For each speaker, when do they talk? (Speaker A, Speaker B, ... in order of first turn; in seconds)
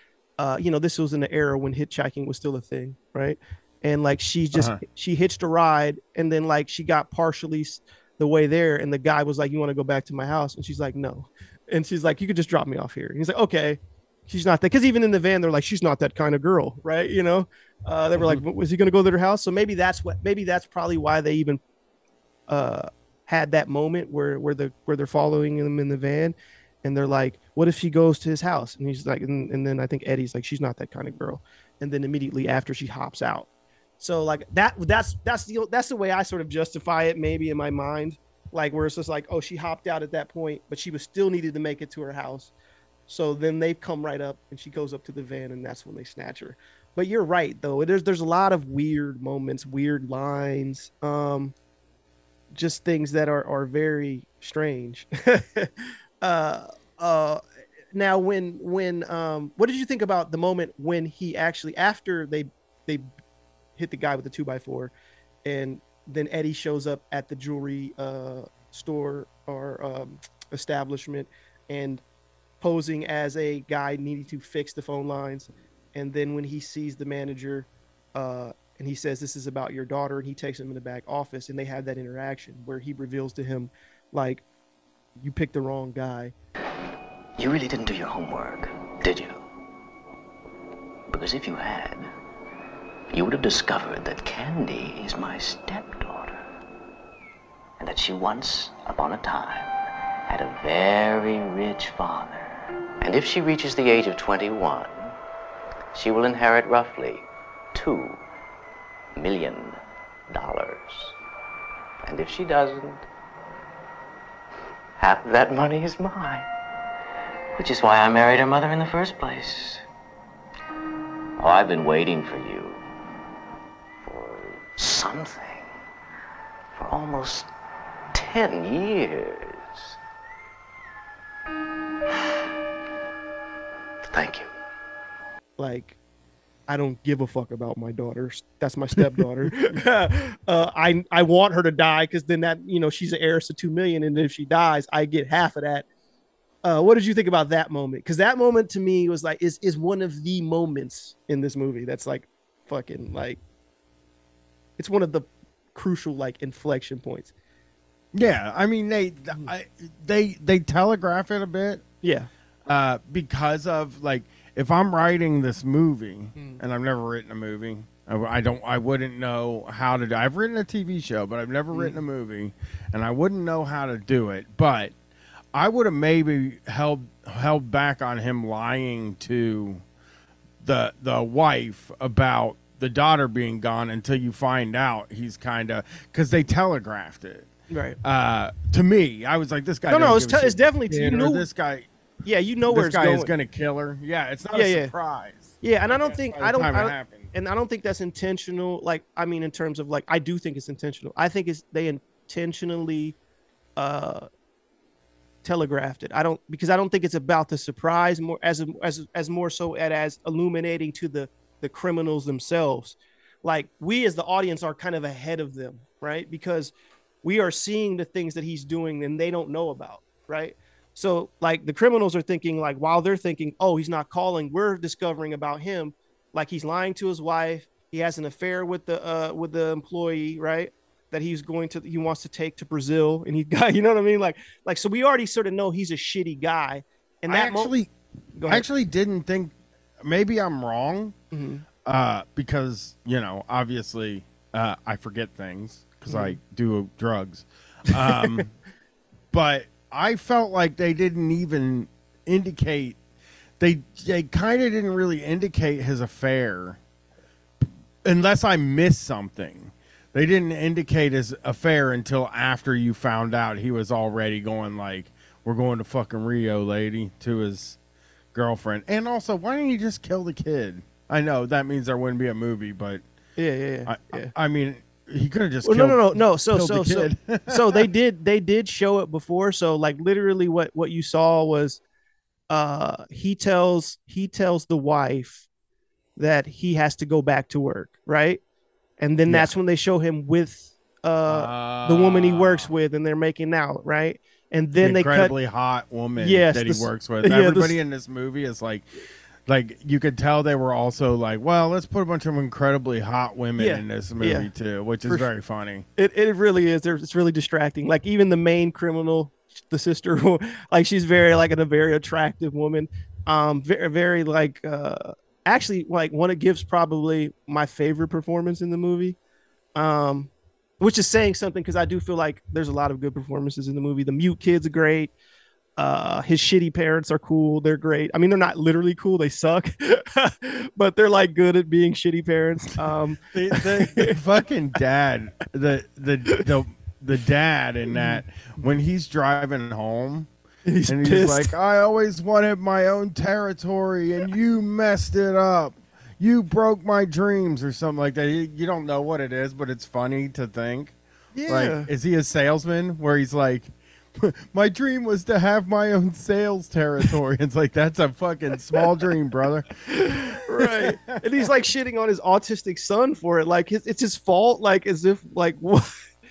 Speaker A: 0.4-21.6, 22.5-33.5, 34.0-42.5, 43.1-51.5, 52.5-57.4, 57.9-63.1, 63.8-64.9, 65.4-72.0, 72.6-84.4, 85.2-86.3, 135.6-136.0, 136.7-145.9, 146.6-153.4, 154.8-157.3, 162.0-162.3, 166.3-166.6, 171.7-172.0, 187.7-188.0, 189.9-191.5, 192.2-193.3, 194.5-194.9, 195.6-203.2, 203.8-204.3, 205.4-237.8, 238.4-238.7, 241.3-241.6, 246.1-246.4, 248.0-248.4, 273.4-274.3, 275.6-281.8, 282.5-285.4, 286.2-288.4, 289.0-295.4, 296.1-297.8, 303.6-304.5, 306.0-319.2, 319.8-325.1, 325.8-334.1, 337.9-338.2, 340.7-341.5, 351.3-351.9, 359.9-365.9
Speaker B: 4.5-4.8, 139.0-139.5, 158.1-161.8, 162.7-174.9, 175.5-179.8, 180.6-187.5, 188.0-191.9, 192.7-197.3, 237.3-237.9, 238.4-241.2, 241.8-248.5, 249.3-253.0, 253.6-256.8, 257.6-267.8, 268.3-273.0, 273.9-277.9, 291.3-292.7, 294.8-298.9, 299.5-305.9, 333.3-340.3, 340.9-350.9, 351.5-361.2
Speaker C: 87.4-89.4, 91.1-92.1, 93.1-96.4, 97.8-99.7, 100.3-105.1, 105.9-108.2, 109.2-109.8, 110.3-111.1, 112.0-113.0, 115.0-116.5, 117.6-119.8, 121.4-122.8, 124.1-125.7, 126.8-127.5, 128.1-129.9, 134.1-134.5